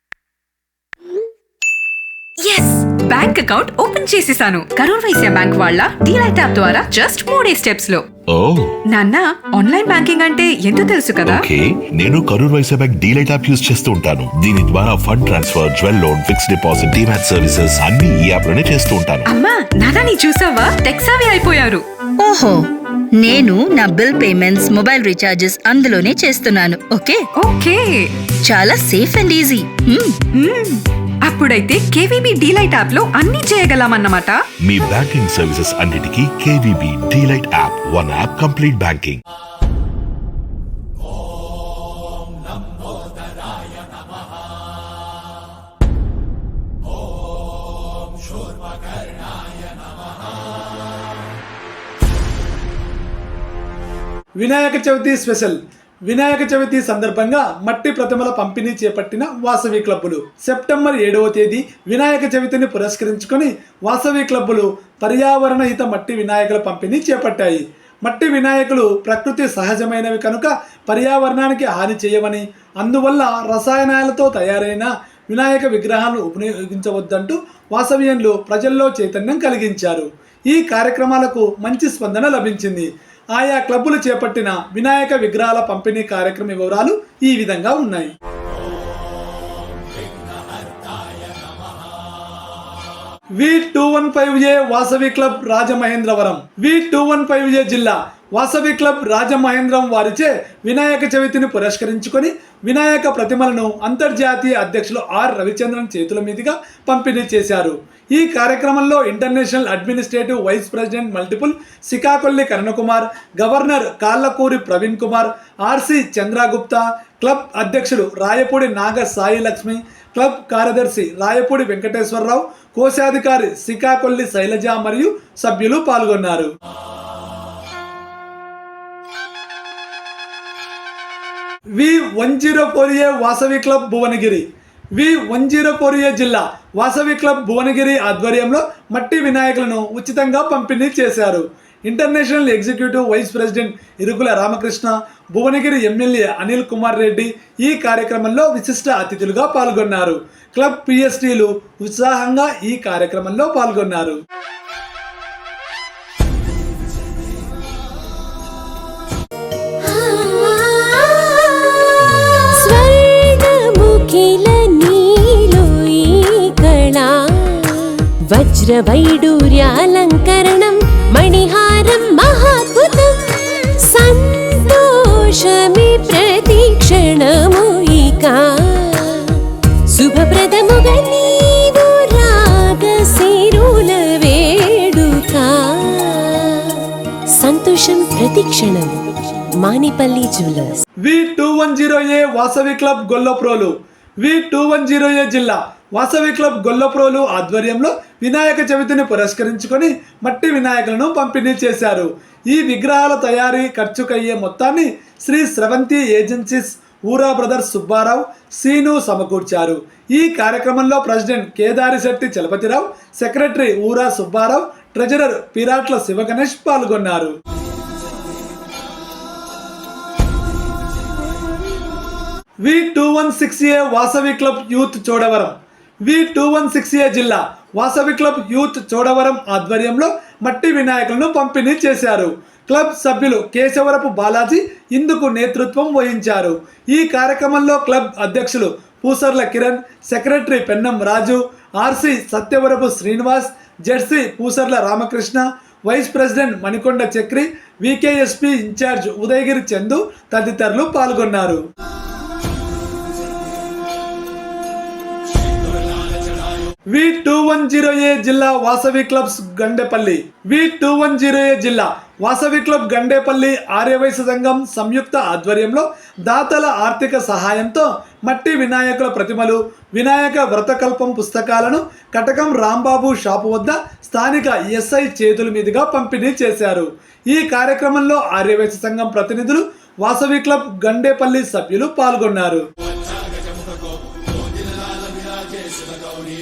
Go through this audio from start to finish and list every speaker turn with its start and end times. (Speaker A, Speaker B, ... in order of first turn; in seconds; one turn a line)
Speaker A: 2.5-8.0
Speaker B: 8.3-8.7
Speaker A: 8.9-11.5
Speaker B: 11.2-19.3
Speaker A: 19.3-21.8
Speaker C: 22.2-22.6
Speaker C: 23.2-27.2
Speaker A: 27.4-28.1
Speaker C: 28.4-30.2
Speaker A: 30.4-34.4
Speaker B: 34.6-39.2
Speaker D: 54.4-88.1
Speaker D: 93.4-126.5
Speaker D: 131.8-154.2
Speaker E: 159.8-186.8
Speaker E: 187.4-189.0
Speaker E: 189.6-190.8
Speaker D: 191.0-217.3
Speaker D: 222.6-251.6
Speaker D: 256.9-282.6